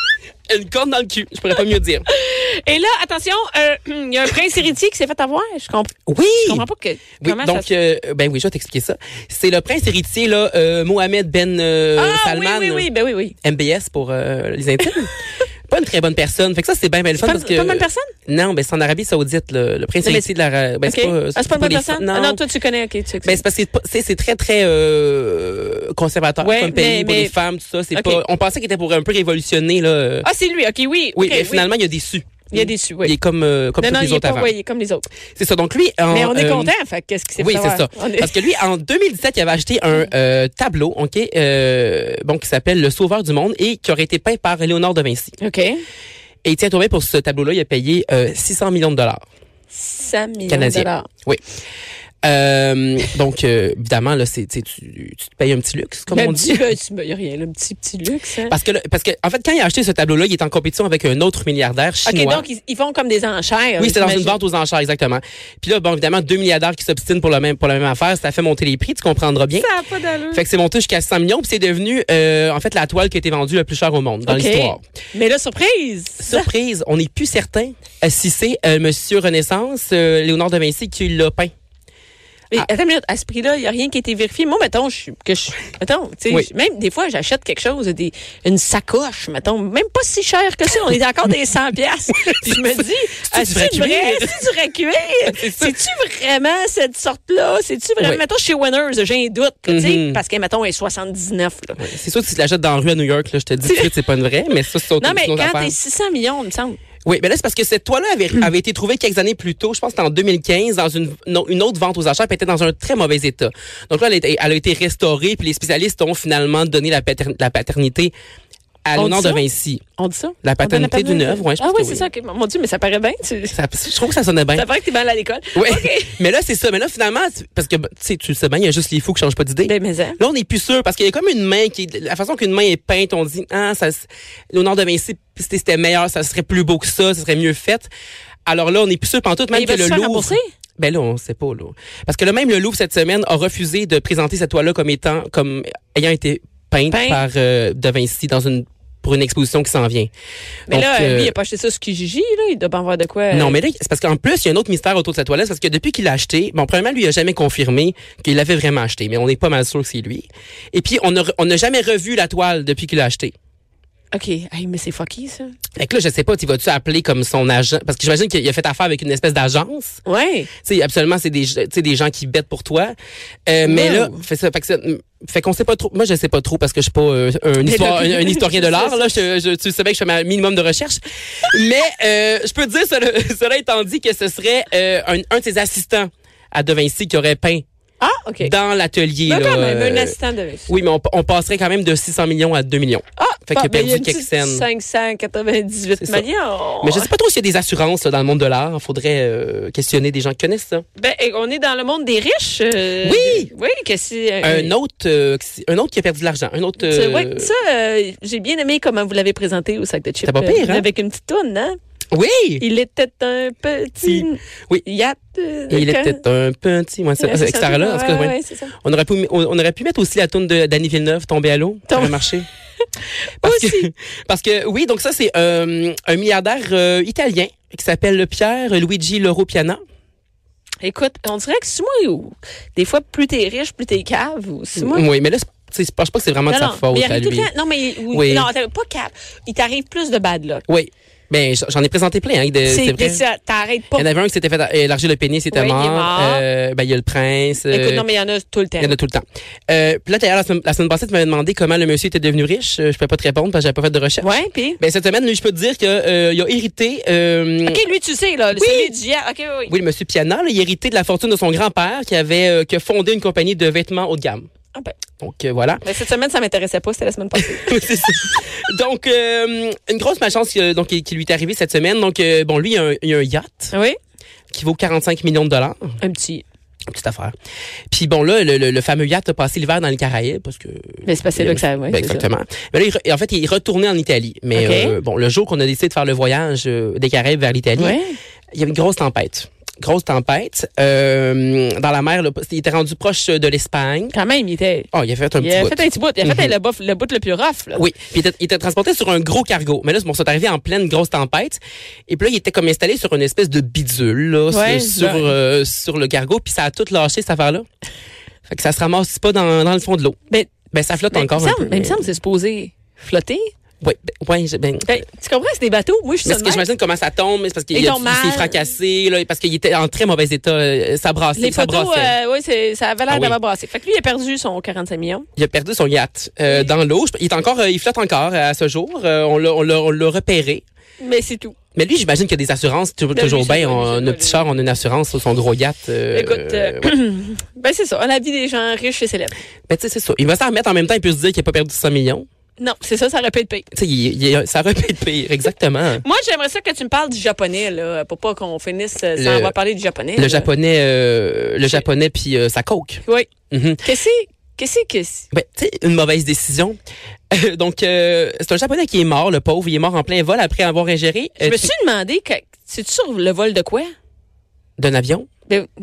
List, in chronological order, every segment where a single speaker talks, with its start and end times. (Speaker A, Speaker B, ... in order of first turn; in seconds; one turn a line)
Speaker A: 0.5-2.1
Speaker B: 2.1-7.7
Speaker A: 6.1-6.7
Speaker A: 7.2-12.9
Speaker B: 12.0-13.3
Speaker A: 13.4-15.1
Speaker A: 15.7-22.4
Speaker B: 17.2-18.1
Speaker B: 20.0-20.3
Speaker B: 20.9-23.4
Speaker A: 23.2-30.3
Speaker B: 26.4-27.4
Speaker B: 27.9-28.2
Speaker B: 30.2-31.7
Speaker A: 31.2-34.5
Speaker B: 32.5-33.1
Speaker B: 33.8-35.1
Speaker A: 35.4-36.7
Speaker B: 36.1-38.5
Speaker A: 37.4-45.4
Speaker B: 45.4-45.8
Speaker A: 46.4-49.2
Speaker B: 49.7-51.1
Speaker A: 50.5-51.4
Speaker A: 52.2-56.7
Speaker B: 56.1-58.6
Speaker A: 58.5-62.5
Speaker B: 62.0-64.4
Speaker A: 63.8-69.7
Speaker B: 69.6-70.4
Speaker A: 70.3-74.8
Speaker B: 74.3-76.5
Speaker A: 76.2-81.5
Speaker B: 82.5-101.9
Speaker A: 92.2-92.6
Speaker A: 93.2-94.4
Speaker A: 95.3-95.7
Speaker A: 99.7-100.2
Speaker A: 101.8-105.7
Speaker B: 103.7-104.0
Speaker B: 105.0-106.8
Speaker A: 107.0-118.1
Speaker A: 118.8-119.8
Speaker B: 119.0-119.4
Speaker B: 120.0-123.6
Speaker A: 120.4-122.1
Speaker A: 123.5-124.7
Speaker B: 124.5-126.2
Speaker A: 125.5-137.9
Speaker B: 129.7-130.2
Speaker A: 138.5-150.1
Speaker B: 139.5-140.5
Speaker B: 146.9-147.2
Speaker A: 150.7-151.3
Speaker B: 150.7-153.6
Speaker A: 153.3-163.3
Speaker B: 164.1-165.5
Speaker A: 165.8-170.0
Speaker B: 170.1-170.5
Speaker A: 170.6-172.9
Speaker A: 173.5-187.6
Speaker B: 173.6-174.2
Speaker B: 177.6-179.2
Speaker B: 188.0-188.5
Speaker A: 188.4-190.2
Speaker B: 189.3-190.7
Speaker A: 190.7-194.7
Speaker B: 193.2-197.1
Speaker A: 196.0-196.3
Speaker A: 196.8-200.8
Speaker B: 201.0-204.7
Speaker A: 203.0-203.5
Speaker A: 204.4-207.5
Speaker B: 206.8-211.8
Speaker A: 210.2-210.9
Speaker A: 212.1-212.6
Speaker B: 212.6-216.2
Speaker A: 214.1-214.8
Speaker A: 215.7-222.5
Speaker B: 217.2-218.7
Speaker B: 221.9-222.4
Speaker B: 223.4-223.9
Speaker A: 223.4-229.8
Speaker B: 230.8-235.1
Speaker A: 234.8-237.5
Speaker B: 236.5-240.6
Speaker A: 238.1-238.5
Speaker A: 240.7-243.2
Speaker B: 242.7-244.1
Speaker A: 244.0-248.1
Speaker B: 245.5-246.4
Speaker B: 247.7-248.9
Speaker A: 248.8-257.8
Speaker B: 254.2-254.8
Speaker B: 257.7-259.7
Speaker A: 258.6-258.9
Speaker A: 259.7-264.5
Speaker A: 265.2-265.9
Speaker B: 265.8-267.8
Speaker A: 267.4-273.7
Speaker A: 274.5-276.0
Speaker B: 276.0-276.4
Speaker A: 276.9-277.3
Speaker A: 277.9-288.0
Speaker B: 281.1-282.3
Speaker B: 284.6-285.0
Speaker B: 287.8-288.2
Speaker A: 288.5-294.1
Speaker B: 294.1-297.8
Speaker A: 294.9-296.6
Speaker A: 297.7-307.7
Speaker B: 304.5-305.3
Speaker A: 308.5-310.2
Speaker A: 310.7-312.0
Speaker B: 311.1-313.5
Speaker A: 313.8-314.9
Speaker B: 314.9-316.6
Speaker A: 316.2-322.1
Speaker B: 317.7-318.6
Speaker B: 321.4-325.3
Speaker A: 323.1-323.4
Speaker A: 325.4-330.6
Speaker B: 331.0-331.6
Speaker A: 331.8-336.9
Speaker B: 333.1-334.5
Speaker B: 336.1-339.4
Speaker A: 339.7-342.3
Speaker B: 342.6-343.7
Speaker A: 343.7-346.0
Speaker B: 346.0-350.5
Speaker A: 349.2-349.5
Speaker A: 350.2-353.8
Speaker B: 353.8-355.3
Speaker A: 355.3-356.8
Speaker A: 357.3-361.7
Speaker B: 361.4-363.9
Speaker A: 364.8-365.3